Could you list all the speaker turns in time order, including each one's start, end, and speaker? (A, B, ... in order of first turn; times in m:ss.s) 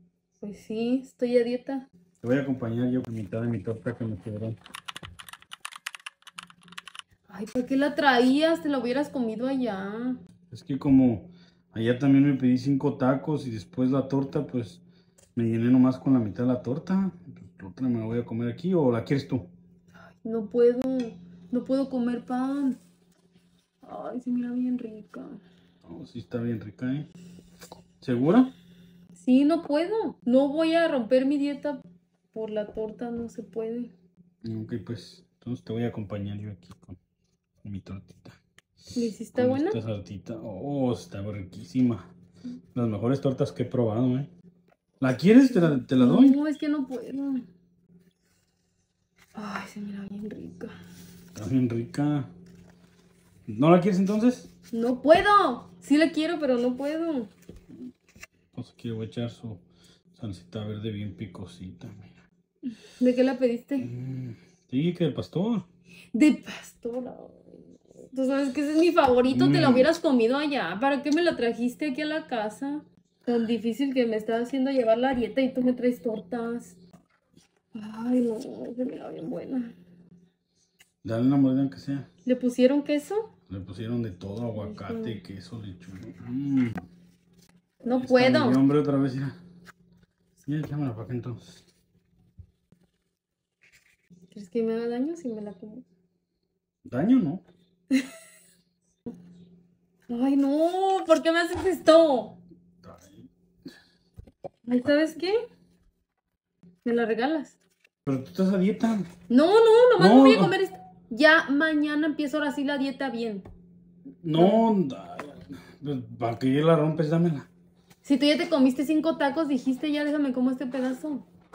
0:00.4-0:01.9 A
0:02.2-0:04.6 B
0:07.3-0:10.2 A
0:10.5-0:14.8 B
0:15.4-0:19.5 B
0:20.2-0:22.8 A
0:23.8-0:25.4 A
0:25.8-0:27.1 B
0:28.0-0:28.5 B
0:29.2-0:33.9 A
0:34.4-0:37.0 B
0:37.6-0:38.4 B
0:39.0-0:39.8 A
0:39.3-0:42.1 B
0:42.7-0:44.3 B
0:45.0-0:46.4 B
0:45.5-0:47.5 A
0:49.3-0:50.7 A
0:51.4-0:52.3 B
0:53.5-0:54.5 B
0:54.7-0:57.3 A
0:58.5-0:59.6 B
1:00.2-1:02.2 B
1:03.0-1:03.9 A
1:03.8-1:05.7 B
1:06.1-1:16.8 A
1:09.3-1:09.9 B
1:17.7-1:19.7 A
1:21.0-1:22.1 B
1:22.2-1:23.3 A
1:23.5-1:26.8 B
1:24.6-1:25.2 A
1:27.8-1:28.6 A
1:27.9-1:29.4 B
1:30.5-1:31.6 B
1:34.3-1:35.8 A
1:36.9-1:37.4 B
1:40.1-1:42.4 A
1:42.8-1:43.3 B
1:44.7-1:45.4 A
1:46.8-1:47.6 A
1:48.1-1:49.1 B
1:49.3-1:53.5 A
1:50.0-1:50.5 B
1:54.2-1:57.5 B
1:54.3-1:54.6 A
1:58.0-2:01.3 A